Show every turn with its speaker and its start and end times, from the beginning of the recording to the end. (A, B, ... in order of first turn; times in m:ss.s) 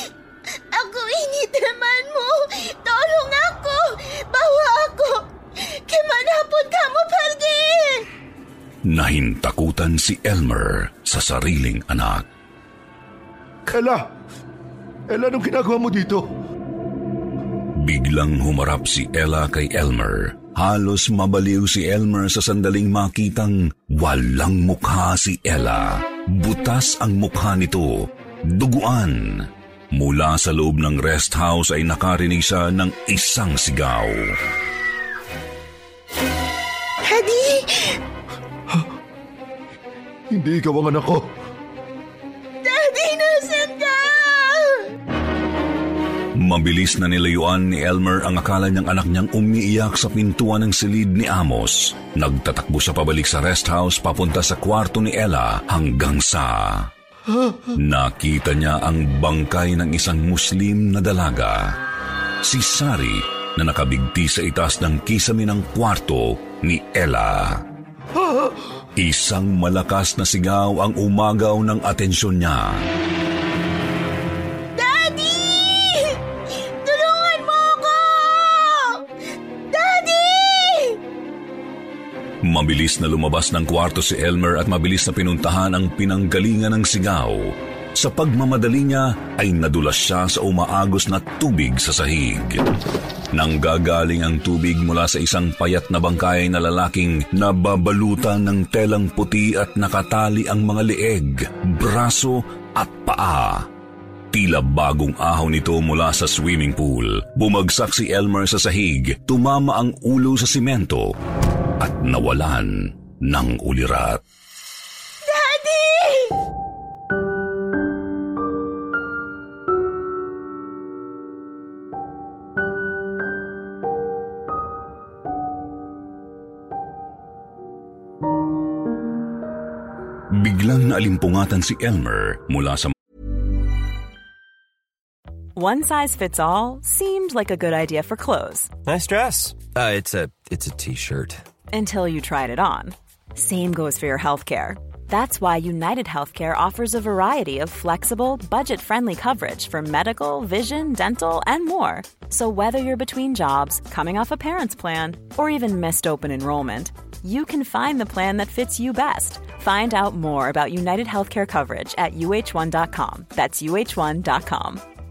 0:00.7-0:08.1 A
0:08.8-0:12.2 B
0:13.7-0:14.1 C
0:15.1-0:16.3 C
0:17.8-0:34.3 B
0:37.0-0:38.0 A
0:40.3-0:41.3 C
0:42.6-0:44.8 A
0:46.4-0:56.9 B
0:57.7-1:01.7 B
1:02.4-1:07.6 B
1:08.2-1:08.5 C
1:09.0-1:12.9 B
1:14.8-1:16.2 A
1:16.8-1:19.0 A
1:19.7-1:21.0 A
1:22.4-1:32.6 B
1:33.3-1:43.7 B
1:44.3-1:51.1 B
1:51.8-1:54.2 B
1:55.2-1:56.3 A
2:10.3-2:12.9 B
2:15.6-2:18.7 D
2:18.8-2:21.4 E
2:21.7-2:44.8 D